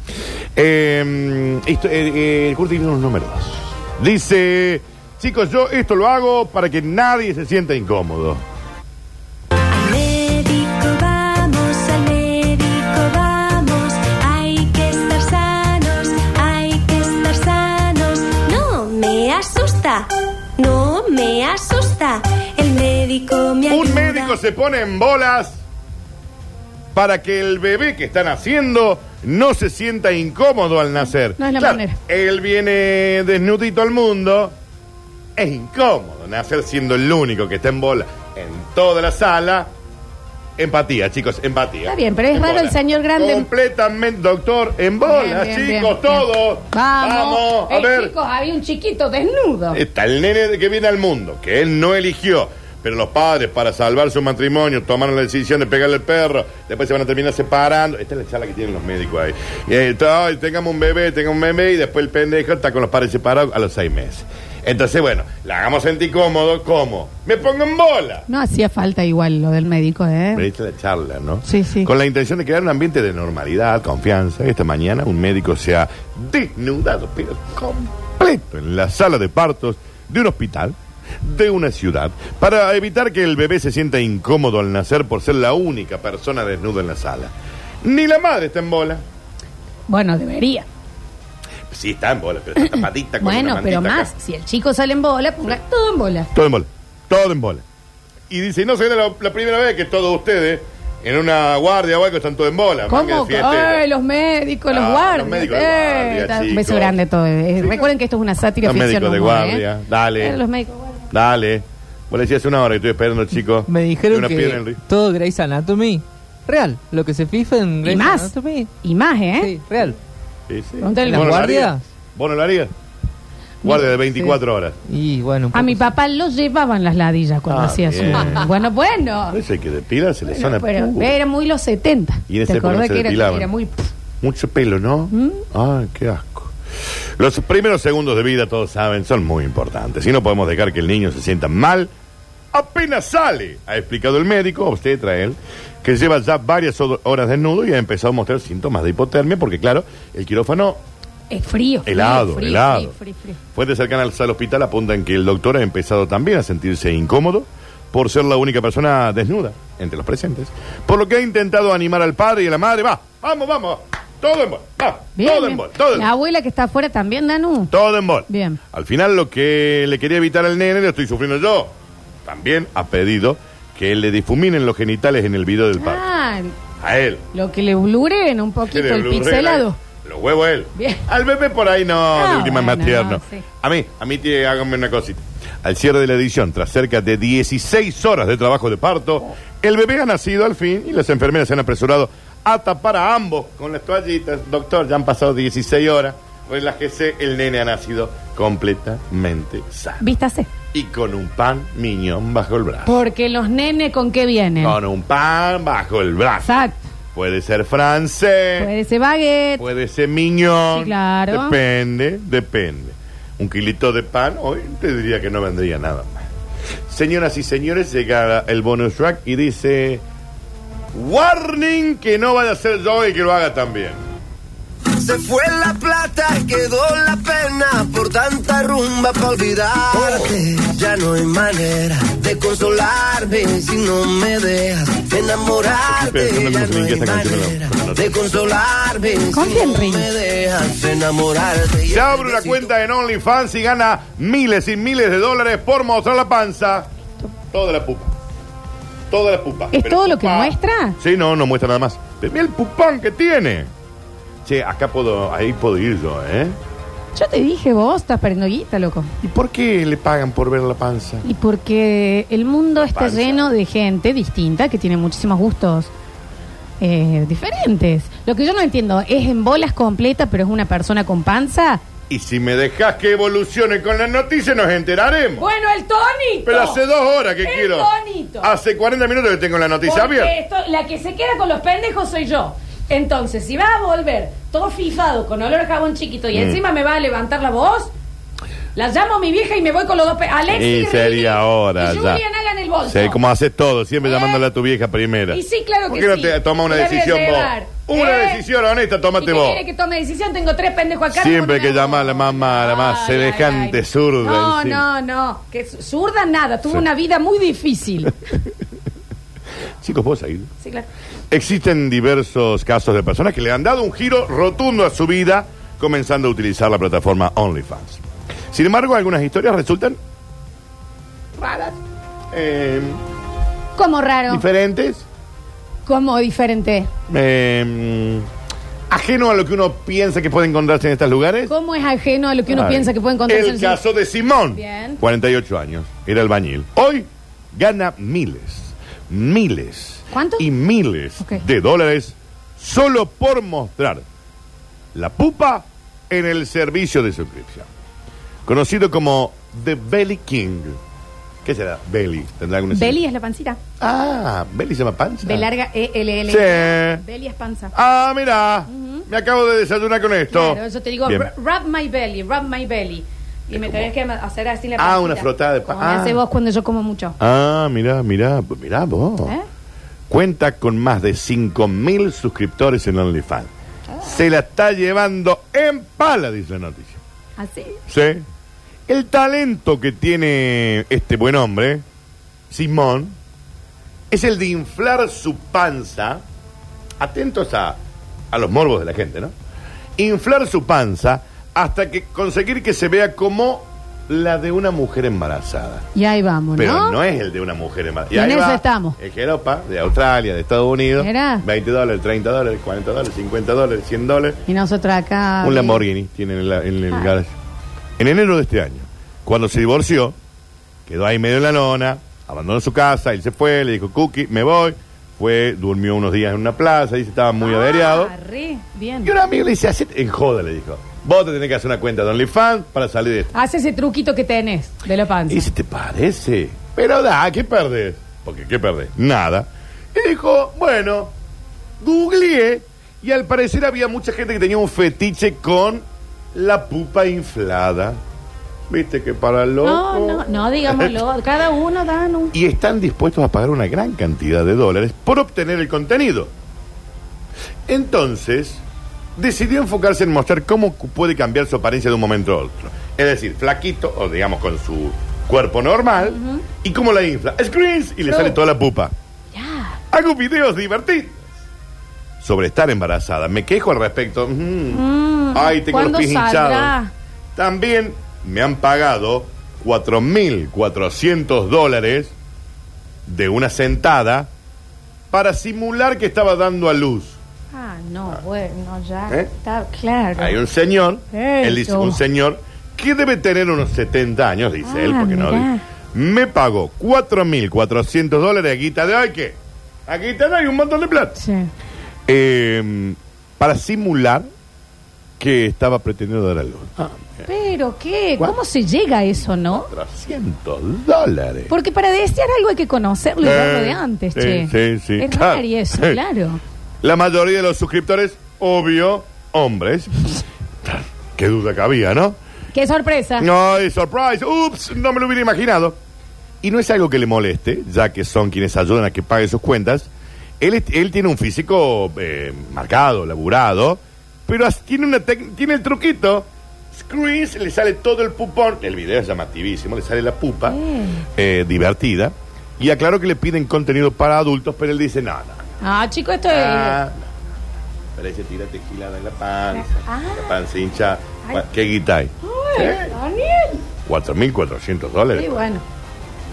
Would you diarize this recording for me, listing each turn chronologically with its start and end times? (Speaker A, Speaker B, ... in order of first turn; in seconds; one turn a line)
Speaker A: 0.6-8.4
Speaker B: 9.7-24.3
Speaker A: 23.7-25.6
Speaker A: 26.9-34.5
Speaker C: 31.4-32.0
Speaker A: 35.4-39.7
Speaker A: 40.6-48.1
Speaker C: 41.9-43.5
Speaker C: 45.0-49.8
Speaker A: 49.7-68.3
Speaker C: 68.3-70.5
Speaker A: 70.3-87.3
Speaker C: 71.5-71.9
Speaker A: 87.8-89.0
Speaker C: 89.9-90.7
Speaker A: 91.7-94.1
Speaker C: 92.6-96.3
Speaker A: 96.3-97.6
Speaker A: 98.3-103.8
Speaker C: 102.9-109.6
Speaker A: 104.7-107.0
Speaker A: 107.6-107.9
Speaker A: 108.6-110.4
Speaker C: 110.2-111.1
Speaker A: 111.1-114.8
Speaker D: 113.7-118.7
Speaker C: 117.8-119.5
Speaker D: 119.4-120.0
Speaker A: 120.5-122.7
Speaker C: 120.8-121.6
Speaker D: 121.1-121.8
Speaker A: 123.6-124.8
Speaker D: 124.9-125.9
Speaker C: 125.5-129.4
Speaker A: 127.5-128.5
Speaker A: 129.3-131.2
Speaker C: 130.3-133.9
Speaker A: 132.3-133.5
Speaker A: 134.2-136.5
Speaker C: 135.1-135.4
Speaker A: 137.2-141.9
Speaker A: 142.5-150.8
Speaker C: 151.3-153.4
Speaker A: 151.9-152.9
Speaker A: 153.6-166.1
Speaker C: 165.2-167.7
Speaker A: 167.7-171.7
Speaker C: 168.3-168.6
Speaker A: 172.2-176.0
Speaker C: 175.8-176.5
Speaker A: 176.8-177.2
Speaker C: 177.3-179.8
Speaker A: 178.7-200.0
Speaker C: 180.8-181.0
Speaker C: 182.2-183.4
Speaker C: 200.0-200.5
Speaker A: 200.7-203.0
Speaker C: 202.9-204.8
Speaker A: 204.6-206.5
Speaker C: 206.4-206.9
Speaker A: 207.1-208.7
Speaker C: 208.6-209.6
Speaker A: 209.6-216.3
Speaker C: 210.7-211.6
Speaker A: 216.9-220.0
Speaker A: 220.9-224.0
Speaker E: 224.9-242.7
Speaker A: 235.9-238.3
Speaker C: 239.3-240.1
Speaker A: 241.8-246.9
Speaker A: 247.5-248.1
Speaker A: 249.1-253.7
Speaker C: 249.7-251.0
Speaker A: 254.4-256.6
Speaker C: 257.1-259.1
Speaker A: 259.2-261.2
Speaker C: 261.2-265.9
Speaker A: 262.8-263.5
Speaker C: 266.8-271.8
Speaker A: 272.1-275.5
Speaker C: 275.4-276.8
Speaker A: 276.5-277.9
Speaker C: 277.4-278.5
Speaker A: 278.4-280.3
Speaker C: 279.8-287.9
Speaker A: 286.3-286.6
Speaker C: 288.8-293.2
Speaker A: 290.5-292.2
Speaker A: 292.9-299.6
Speaker C: 294.0-294.4
Speaker C: 295.3-298.4
Speaker C: 299.2-308.2
Speaker A: 301.1-304.9
Speaker A: 309.8-310.5
Speaker C: 310.6-310.9
Speaker A: 311.3-320.0
Speaker A: 321.4-321.8
Speaker A: 322.3-323.0
Speaker C: 323.8-324.4
Speaker A: 324.3-325.1
Speaker C: 325.9-326.9
Speaker A: 327.1-328.3
Speaker A: 328.9-331.5
Speaker C: 331.5-333.8
Speaker A: 332.5-344.1
Speaker C: 334.6-335.0
Speaker C: 340.1-340.5
Speaker A: 344.9-347.7
Speaker A: 348.5-350.8
Speaker A: 351.4-353.0
Speaker C: 352.7-353.6
Speaker A: 353.8-355.5
Speaker C: 355.2-357.7
Speaker A: 356.3-357.0
Speaker A: 357.7-361.3
Speaker C: 358.7-359.1
Speaker C: 360.3-367.2
Speaker A: 363.5-363.9
Speaker A: 364.8-366.2
Speaker A: 367.2-369.3
Speaker A: 370.1-373.5
Speaker A: 374.0-377.0
Speaker C: 377.4-377.8
Speaker A: 377.9-378.2
Speaker A: 378.9-381.8
Speaker A: 382.5-383.2
Speaker A: 384.1-386.2
Speaker A: 387.0-387.8
Speaker A: 388.3-389.3
Speaker A: 390.0-395.9
Speaker C: 395.9-397.0
Speaker A: 396.6-404.4
Speaker C: 398.1-399.0
Speaker C: 401.0-401.4
Speaker C: 404.5-405.8
Speaker A: 405.4-407.3
Speaker A: 408.0-410.2
Speaker A: 410.9-418.1
Speaker C: 417.4-419.1
Speaker A: 419.0-423.3
Speaker C: 423.3-425.5
Speaker A: 425.3-431.1
Speaker A: 431.8-438.0
Speaker A: 438.7-441.0
Speaker C: 439.6-442.3
Speaker A: 442.3-446.3
Speaker A: 447.7-448.6
Speaker A: 449.2-458.9
Speaker C: 456.0-456.4
Speaker C: 458.1-458.4
Speaker C: 459.3-459.8
Speaker A: 459.9-461.2
Speaker A: 462.2-466.8
Speaker C: 464.7-466.9
Speaker A: 467.4-472.1
Speaker A: 473.1-474.3
Speaker A: 475.1-477.2
Speaker C: 477.5-480.4
Speaker A: 480.2-491.2
Speaker C: 481.1-482.0
Speaker C: 484.6-485.6
Speaker C: 491.2-491.5
Speaker A: 492.1-494.3
Speaker A: 495.2-497.3
Speaker C: 497.3-499.7
Speaker A: 499.5-501.5
Speaker C: 501.5-506.4
Speaker A: 503.2-506.0
Speaker A: 506.8-512.2
Speaker C: 512.5-513.3
Speaker A: 513.2-515.8
Speaker A: 516.4-530.6
Speaker C: 530.5-531.1
Speaker A: 531.1-535.4
Speaker C: 535.6-536.8
Speaker A: 536.3-537.1
Speaker A: 538.0-543.0
Speaker C: 539.5-540.3
Speaker C: 542.2-543.7
Speaker A: 543.9-545.3
Speaker C: 545.1-545.6